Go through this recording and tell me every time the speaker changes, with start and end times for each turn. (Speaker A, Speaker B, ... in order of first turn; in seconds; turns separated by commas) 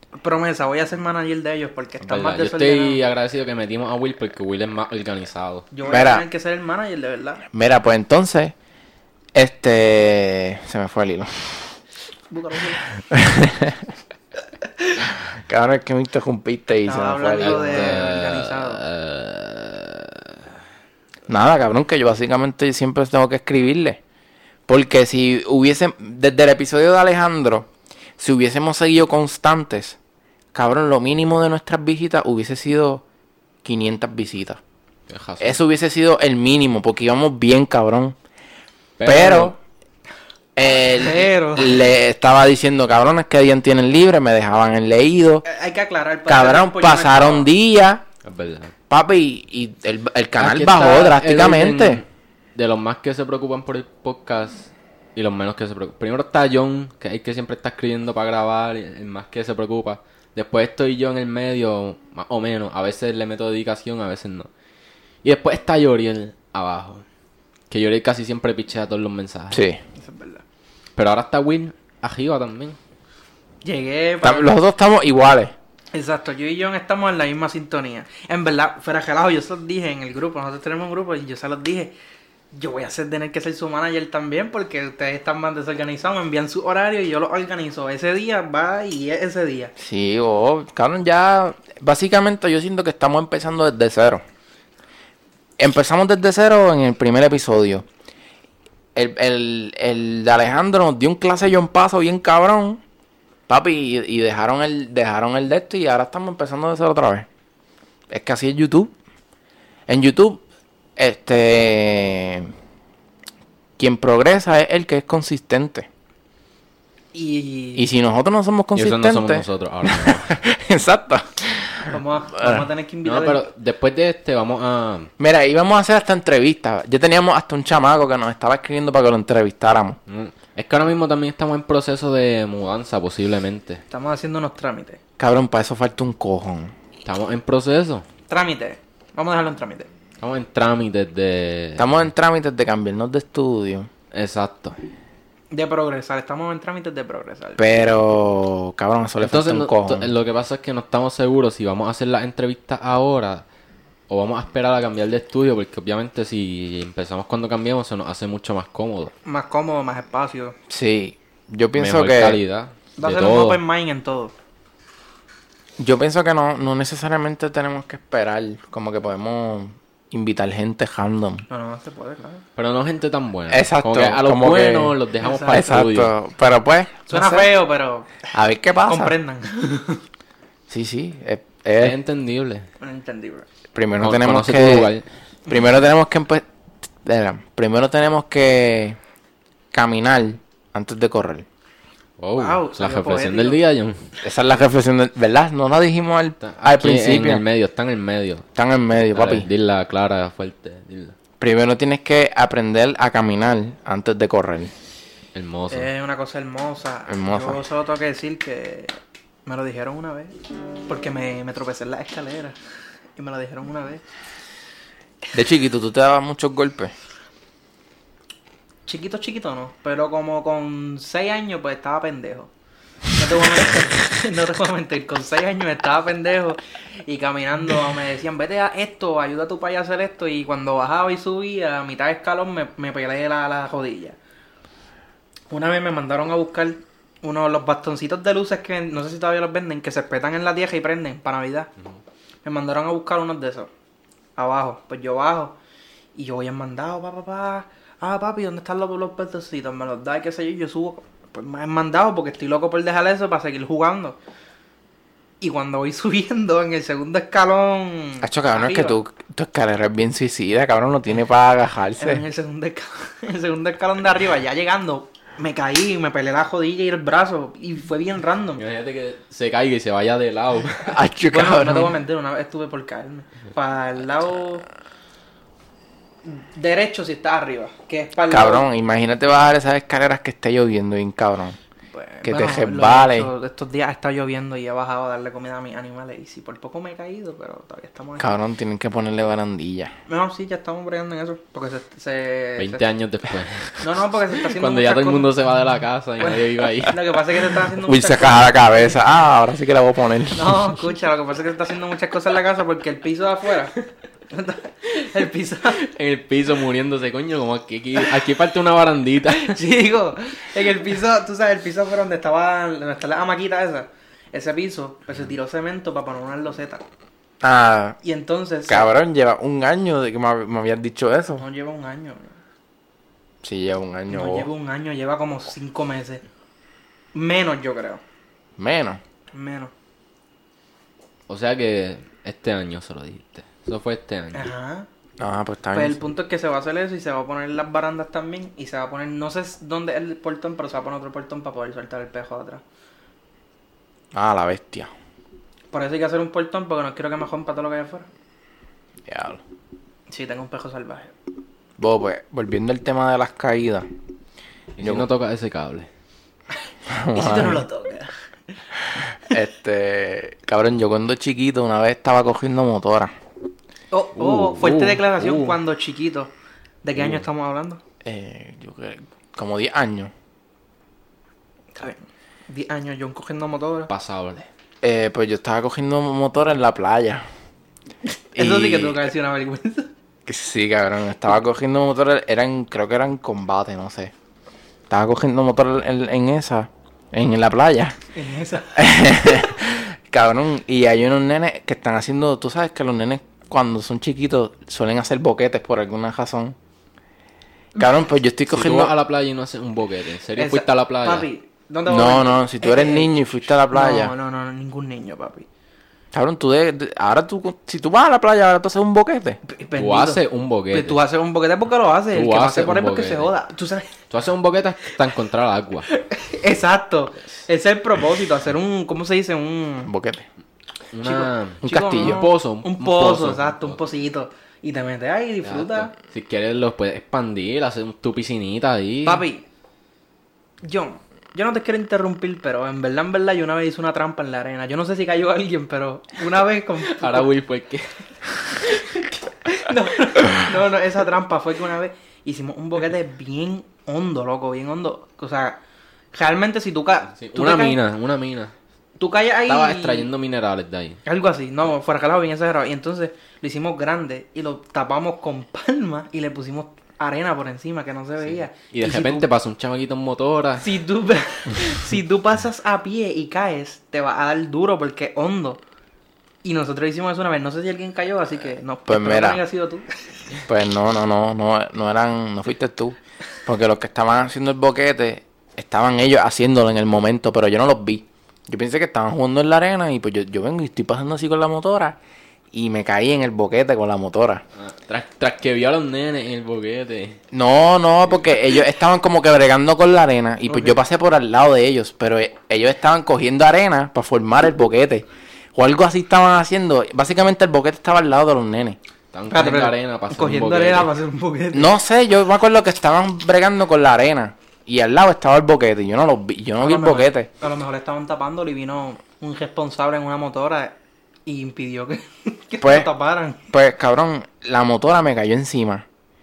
Speaker A: 0.2-3.0, Speaker B: 2.0-5.7, Speaker A: 5.7-7.4, Speaker C: 5.9-6.3, Speaker C: 7.5-8.6, Speaker C: 9.3-11.8, Speaker A: 12.3-12.9, Speaker C: 13.1-13.9, Speaker C: 15.1-18.0, Speaker A: 16.9-18.8, Speaker B: 17.4-20.4, Speaker C: 21.3-24.0, Speaker C: 24.7-30.0, Speaker C: 30.5-33.0, Speaker C: 33.6-34.6, Speaker B: 35.1-35.6, Speaker C: 35.4-38.2, Speaker B: 39.0-39.5, Speaker C: 39.0-39.6, Speaker C: 40.6-45.4, Speaker A: 41.0-41.8, Speaker A: 45.5-47.5, Speaker C: 46.3-48.0, Speaker B: 48.2-48.7, Speaker C: 48.9-52.0, Speaker B: 50.4-64.5, Speaker B: 65.2-67.0, Speaker B: 67.7-69.6, Speaker C: 69.5-69.8, Speaker A: 70.0-70.4, Speaker B: 71.0-72.8, Speaker A: 73.6-74.5, Speaker C: 74.2-75.5, Speaker A: 75.9-81.9, Speaker A: 82.5-89.7, Speaker C: 89.8-94.2, Speaker C: 95.6-97.9, Speaker C: 99.0-102.8, Speaker C: 103.5-107.3, Speaker C: 108.1-108.9, Speaker C: 109.9-110.4, Speaker C: 111.0-112.5, Speaker C: 113.8-115.9, Speaker A: 117.1-117.9, Speaker C: 117.8-122.7, Speaker B: 118.8-120.4, Speaker A: 121.9-123.5, Speaker B: 123.0-125.1, Speaker C: 125.2-130.0, Speaker B: 130.1-133.8, Speaker A: 133.9-135.0, Speaker C: 135.2-136.7, Speaker B: 137.1-138.1, Speaker A: 138.3-139.9, Speaker B: 140.2-142.0, Speaker C: 141.8-143.9, Speaker B: 144.1-144.8, Speaker A: 145.5-147.7, Speaker C: 147.6-150.1, Speaker B: 149.2-153.4, Speaker B: 154.1-159.1, Speaker A: 159.2-160.6, Speaker C: 160.7-162.4, Speaker B: 161.8-163.6, Speaker A: 163.0-164.3, Speaker C: 165.8-171.5, Speaker A: 171.5-172.4, Speaker B: 172.6-176.1, Speaker C: 173.5-177.5, Speaker A: 175.2-175.7, Speaker A: 177.1-178.3, Speaker C: 178.3-179.1, Speaker A: 178.8-180.0, Speaker C: 180.7-182.0, Speaker B: 181.8-182.7, Speaker A: 182.8-183.4, Speaker C: 183.7-184.9, Speaker B: 184.0-185.1, Speaker C: 185.5-186.5, Speaker C: 187.0-189.0, Speaker C: 189.7-191.5, Speaker B: 192.2-194.1, Speaker A: 192.4-193.6, Speaker C: 194.2-197.4, Speaker B: 196.4-198.5, Speaker C: 198.6-199.5, Speaker B: 199.1-201.2, Speaker C: 201.4-204.7, Speaker B: 205.3-205.9, Speaker A: 205.7-208.9, Speaker C: 207.1-207.6, Speaker A: 209.5-210.4, Speaker A: 210.9-212.6, Speaker A: 213.2-214.0, Speaker C: 215.3-216.9, Speaker A: 218.9-222.5, Speaker A: 223.2-234.2, Speaker A: 235.5-241.7, Speaker A: 242.4-243.7, Speaker A: 244.4-245.6, Speaker A: 246.1-254.2, Speaker A: 255.4-259.0, Speaker C: 258.2-262.2, Speaker A: 262.0-268.6, Speaker B: 268.6-271.0, Speaker C: 270.9-272.0, Speaker A: 271.3-274.6, Speaker A: 276.2-278.7, Speaker C: 278.3-281.6, Speaker A: 281.9-288.4, Speaker C: 282.2-283.3, Speaker C: 288.2-289.9, Speaker A: 290.1-292.9, Speaker B: 292.6-297.2, Speaker A: 293.8-295.3, Speaker A: 296.2-298.9, Speaker C: 297.8-300.8, Speaker A: 300.3-303.8, Speaker A: 304.3-305.8, Speaker B: 305.8-309.6, Speaker A: 309.3-316.9, Speaker C: 317.4-318.0, Speaker A: 318.0-318.9, Speaker C: 318.7-321.4, Speaker A: 321.4-322.4, Speaker C: 323.4-324.5, Speaker A: 324.1-326.2, Speaker A: 327.1-328.0, Speaker C: 328.6-329.0, Speaker A: 329.3-329.7, Speaker B: 331.3-334.5, Speaker A: 334.3-334.9, Speaker C: 335.2-336.0, Speaker A: 335.7-342.6, Speaker C: 344.1-344.9, Speaker A: 345.7-348.1, Speaker C: 349.1-349.4, Speaker A: 350.1-351.1, Speaker C: 351.8-353.9, Speaker B: 354.8-355.9, Speaker C: 354.8-355.1, Speaker C: 356.9-357.6, Speaker A: 357.1-358.1, Speaker C: 359.0-363.1, Speaker A: 363.9-366.3, Speaker B: 364.2-365.6, Speaker A: 366.8-367.8, Speaker C: 368.0-370.1, Speaker A: 371.7-373.9, Speaker B: 373.9-374.5, Speaker C: 374.8-377.3, Speaker C: 378.4-379.1, Speaker A: 378.4-379.9, Speaker C: 380.3-384.1, Speaker C: 384.9-387.9, Speaker A: 388.1-388.8, Speaker C: 388.7-396.6, Speaker C: 397.8-398.9, Speaker B: 398.5-401.3, Speaker A: 400.4-405.5, Speaker C: 401.9-404.1, Speaker C: 406.1-409.4, Speaker A: 409.4-413.9, Speaker B: 409.8-411.0, Speaker B: 412.1-413.3, Speaker B: 414.1-415.9, Speaker A: 415.9-419.9, Speaker C: 419.9-420.3, Speaker B: 420.9-423.8, Speaker A: 421.0-425.9, Speaker C: 421.6-422.2, Speaker B: 425.4-429.2, Speaker A: 429.1-429.4, Speaker A: 430.6-437.3, Speaker B: 436.8-437.9, Speaker B: 438.5-439.0, Speaker A: 439.4-445.6, Speaker A: 446.1-447.8, Speaker B: 447.2-448.5, Speaker A: 449.0-450.1, Speaker B: 449.5-451.0, Speaker A: 451.1-459.3, Speaker B: 458.2-460.8, Speaker A: 460.6-465.6, Speaker A: 466.4-469.9, Speaker C: 468.9-469.4, Speaker C: 470.4-482.0, Speaker C: 482.5-484.4, Speaker B: 484.6-487.2, Speaker C: 487.3-498.8, Speaker A: 490.5-490.7, Speaker B: 499.1-500.9, Speaker A: 499.3-501.7, Speaker C: 501.5-507.3, Speaker A: 506.6-510.7, Speaker A: 511.3-513.4, Speaker C: 512.6-512.9, Speaker C: 513.5-515.9